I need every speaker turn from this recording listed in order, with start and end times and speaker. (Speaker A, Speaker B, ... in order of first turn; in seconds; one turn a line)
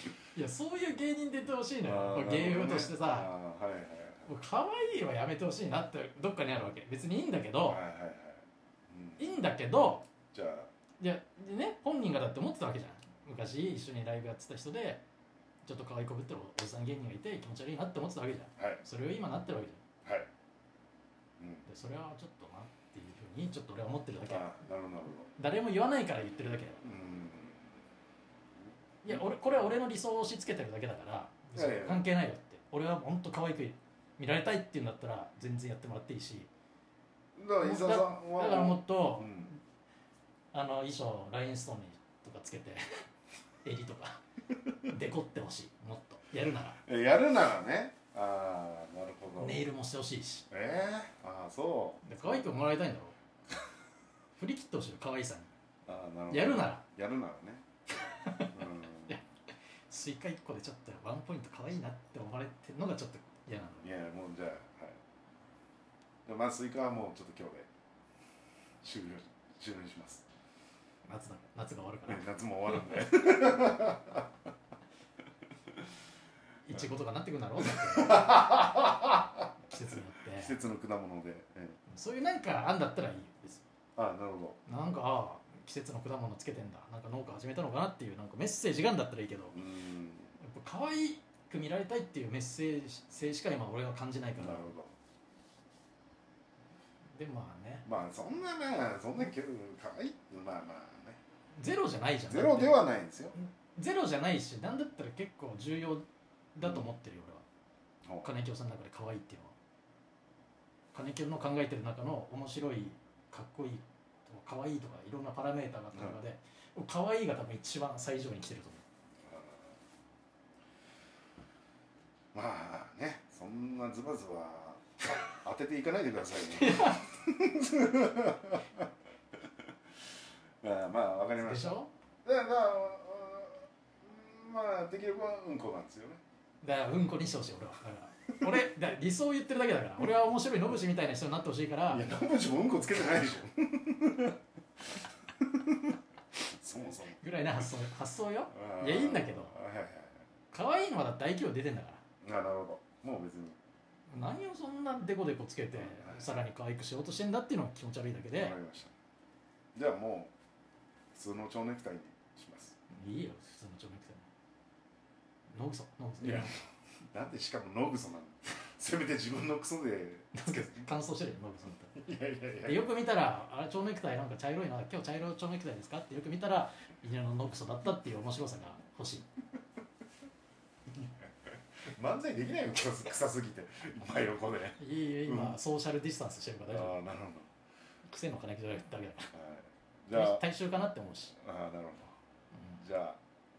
Speaker A: 0.3-3.3
Speaker B: 1.8-4.3
Speaker A: 4.2-7.8
Speaker B: 7.7-9.5
Speaker A: 9.2-10.1
Speaker B: 10.1-10.7
Speaker A: 11.0-15.0
Speaker A: 15.6-19.8
Speaker B: 21.4-21.7
Speaker A: 21.7-24.5
Speaker B: 24.3-25.3
Speaker A: 25.4-26.8
Speaker B: 26.8-27.6
Speaker A: 29.0-36.5
Speaker B: 29.1-29.4
Speaker B: 31.6-32.1
Speaker B: 37.4-39.5
Speaker A: 37.6-39.6
Speaker A: 40.5-42.8
Speaker A: 43.6-44.2
Speaker A: 44.8-46.8
Speaker B: 46.7-49.6
Speaker A: 49.4-50.5
Speaker B: 50.5-52.1
Speaker A: 52.0-53.1
Speaker A: 54.4-55.5
Speaker B: 55.9-57.6
Speaker A: 56.3-56.9
Speaker A: 58.0-58.5
Speaker B: 58.5-59.2
Speaker A: 59.9-63.9
Speaker B: 63.8-65.0
Speaker B: 66.3-67.7
Speaker B: 68.8-70.2
Speaker A: 71.1-73.2
Speaker B: 72.1-74.3
Speaker A: 76.7-78.6
Speaker B: 77.6-79.2
Speaker A: 79.7-80.6
Speaker B: 80.4-81.8
Speaker A: 81.9-83.6
Speaker B: 84.0-84.6
Speaker A: 84.7-89.6
Speaker B: 89.5-90.4
Speaker A: 90.4-94.7
Speaker B: 94.4-94.9
Speaker A: 97.2-97.9
Speaker B: 97.8-101.2
Speaker A: 101.6-102.8
Speaker B: 102.3-103.3
Speaker A: 103.3-107.4
Speaker B: 106.6-106.9
Speaker B: 108.0-108.3
Speaker A: 108.2-109.5
Speaker A: 110.9-118.8
Speaker B: 119.3-119.7
Speaker B: 122.3-124.8
Speaker B: 125.4-128.9
Speaker A: 126.5-127.1
Speaker B: 130.6-136.2
Speaker A: 131.4-131.9
Speaker A: 136.6-142.1
Speaker B: 141.9-144.4
Speaker B: 145.4-145.8
Speaker B: 146.5-147.6
Speaker A: 147.0-149.5
Speaker B: 148.5-150.2
Speaker A: 150.5-152.0
Speaker B: 152.2-153.6
Speaker A: 154.1-158.6
Speaker B: 155.9-156.2
Speaker B: 158.3-158.9
Speaker B: 159.8-160.3
Speaker B: 161.1-162.8
Speaker A: 162.9-164.3
Speaker A: 165.5-166.6
Speaker B: 166.2-166.6
Speaker B: 167.1-170.9
Speaker A: 170.3-172.0
Speaker B: 171.9-172.9
Speaker A: 172.6-179.3
Speaker B: 181.9-185.6
Speaker A: 184.8-187.0
Speaker B: 186.7-187.5
Speaker A: 188.1-189.3
Speaker B: 189.3-190.4
Speaker A: 190.1-191.4
Speaker B: 191.4-192.1
Speaker B: 192.8-193.2